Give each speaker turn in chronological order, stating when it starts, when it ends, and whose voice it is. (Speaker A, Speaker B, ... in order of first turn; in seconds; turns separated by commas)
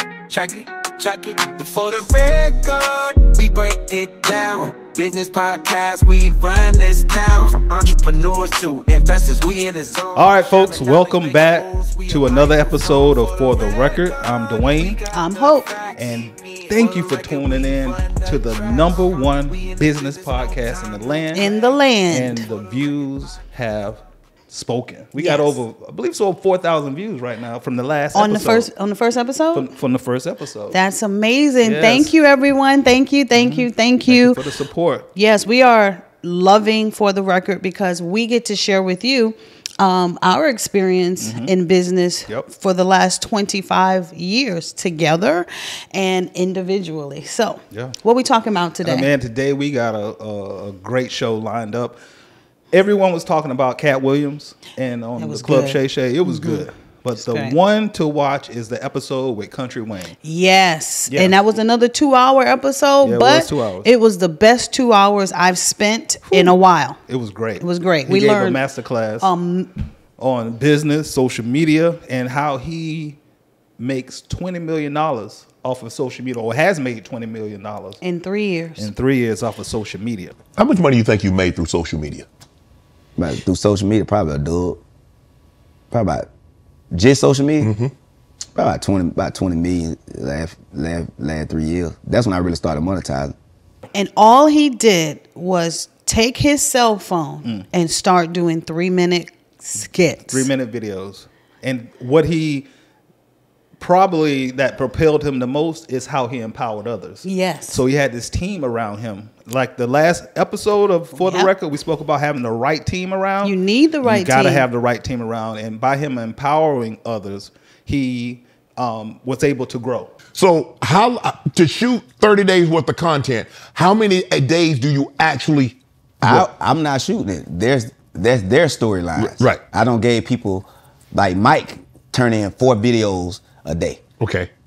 Speaker A: 0.3-21.7, Speaker B: 10.1-15.0, Speaker C: 15.1-15.7, Speaker B: 15.9-21.5, Speaker C: 21.3-22.4, Speaker B: 22.1-28.7, Speaker A: 22.5-22.7, Speaker C: 25.2-25.6, Speaker C: 28.1-29.7, Speaker B: 29.5-30.8, Speaker C: 30.7-34.4, Speaker B: 31.6-32.1, Speaker B: 33.3-35.1, Speaker C: 35.1-49.1, Speaker B: 41.2-41.5, Speaker B: 48.8-52.0, Speaker B: 52.7-60.1, Speaker C: 55.2-56.6, Speaker C: 57.2-57.5, Speaker C: 60.2-67.0, Speaker B: 61.1-61.3, Speaker B: 63.0-63.9, Speaker B: 66.3-66.5, Speaker B: 67.1-69.3, Speaker C: 67.6-68.6, Speaker C: 69.2-69.7, Speaker B: 70.2-73.2, Speaker B: 73.8-78.0, Speaker C: 78.0-78.9, Speaker B: 78.8-80.4, Speaker D: 80.5-82.2, Speaker E: 83.2-84.8, Speaker E: 85.9-86.3, Speaker E: 86.9-87.7, Speaker D: 87.6-87.9, Speaker E: 88.5-93.3, Speaker C: 93.9-100.5, Speaker B: 100.3-102.7, Speaker B: 103.8-120.1, Speaker C: 107.2-107.8, Speaker C: 111.2-111.5, Speaker C: 113.4-114.6, Speaker D: 120.3-126.5, Speaker E: 126.2-134.0, Speaker D: 129.2-129.6, Speaker D: 134.2-134.5